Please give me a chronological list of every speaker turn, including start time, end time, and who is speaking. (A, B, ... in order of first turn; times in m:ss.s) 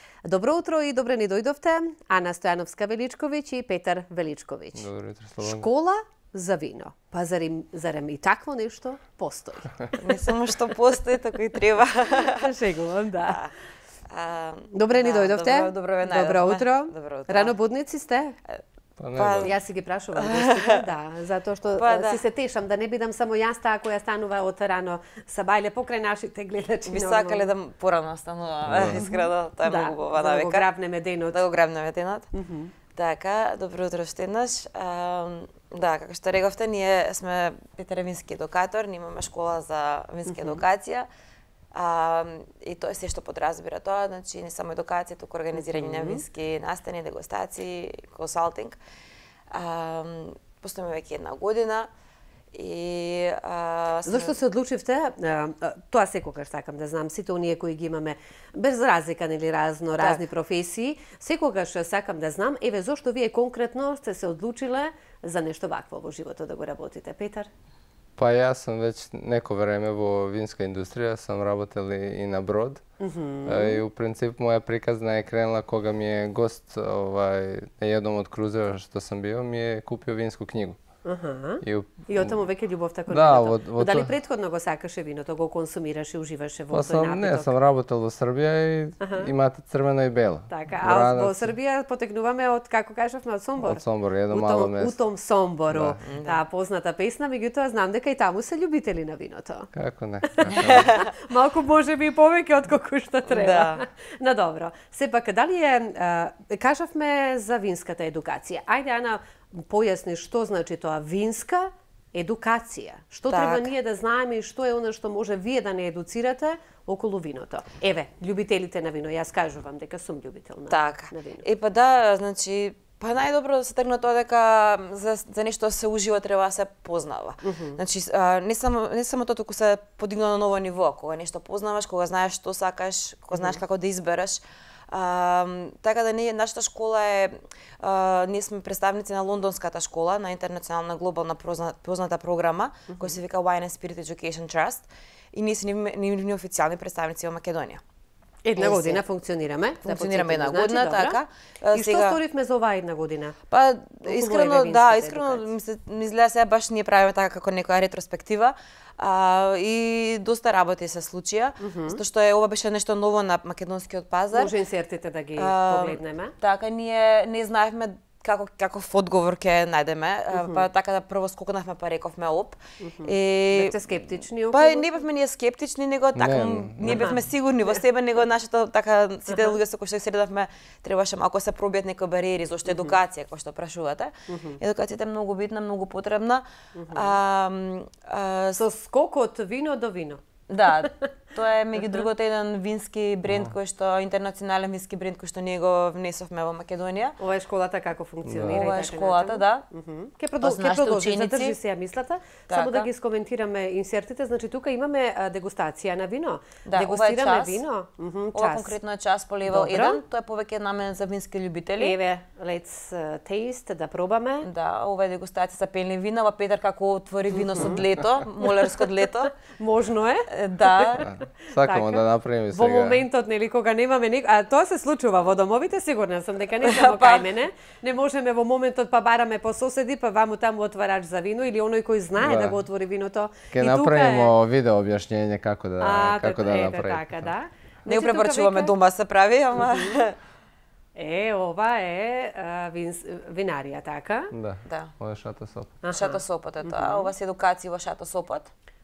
0:00.2-0:04.9 A
0:04.8-0:05.7 B
0:05.4-0:10.2 A
0:10.0-0:12.5 C
0:12.2-0:13.4 A
0:13.2-0:13.5 C
0:14.1-0:17.5 C
0:14.7-0:18.3 A
0:19.0-0:19.5 B
0:19.2-0:19.5 C
0:19.4-0:27.5 A
0:20.1-0:20.8 C
0:21.8-0:22.2 C
0:26.9-0:30.6 C
0:28.6-0:29.1 B
0:29.0-0:31.4 A
0:31.3-0:32.3 C
0:32.3-0:32.7 A
0:32.9-0:41.1 C
0:40.3-0:40.6 A
0:41.7-0:48.8 C
0:45.6-0:46.2 A
0:49.5-0:51.9 C
0:52.5-0:54.4 C
0:54.1-1:07.5 A
1:08.2-1:12.8 B
1:13.0-1:13.8 A
1:13.4-1:20.8 B
1:21.0-1:27.6 A
1:21.6-1:22.4 B
1:23.1-1:24.1 B
1:26.7-1:31.5 B
1:29.0-1:29.3 A
1:30.5-1:39.7 A
1:33.6-1:35.0 B
1:35.7-1:36.0 B
1:36.0-1:36.4 C
1:39.7-1:40.9 B
1:40.2-2:01.4 A
1:40.5-1:41.1 C
1:43.3-1:43.8 C
1:53.3-1:53.7 C
2:00.7-2:27.8 C
2:07.4-2:07.8 A
2:13.3-2:13.6 A
2:22.9-2:23.2 A
2:28.4-2:31.2 A
2:28.6-2:29.0 C
2:29.8-2:32.2 C
2:31.7-2:33.4 A
2:33.5-2:44.5 C
2:34.0-2:35.5 A
2:41.6-2:42.0 A
2:44.3-2:46.3 A
2:45.4-3:08.6 C
2:50.3-2:50.6 A
2:52.8-2:54.9 A
2:56.1-2:57.1 B
2:56.8-2:57.2 A
2:59.3-2:59.6 A
3:02.7-3:03.0 A
3:04.3-3:04.6 A
3:06.7-3:07.1 A
3:08.6-3:11.1 A
3:10.5-3:17.2 C
3:11.8-3:12.0 A
3:13.3-3:13.5 B
3:17.2-3:28.8 A
3:18.2-3:18.6 B
3:18.4-3:19.6 C
3:20.4-3:21.6 C
3:22.5-3:22.9 C
3:26.6-3:27.6 C
3:28.3-3:32.0 C
3:29.5-3:30.0 A
3:31.8-3:34.5 A
3:34.4-3:39.3 C
3:37.3-3:37.8 A
3:38.4-3:38.7 A
3:39.4-3:54.3 A
3:40.3-3:41.1 C
3:41.1-3:43.0 B
3:46.6-3:47.3 C
3:52.2-3:52.6 B
3:53.5-3:57.3 B
3:55.8-3:58.7 A
3:57.9-4:00.1 C
3:59.6-4:00.0 A
4:01.0-4:04.3 A
4:04.3-4:05.8 B
4:04.6-4:04.9 C
4:05.8-4:07.1 A
4:05.9-4:08.5 C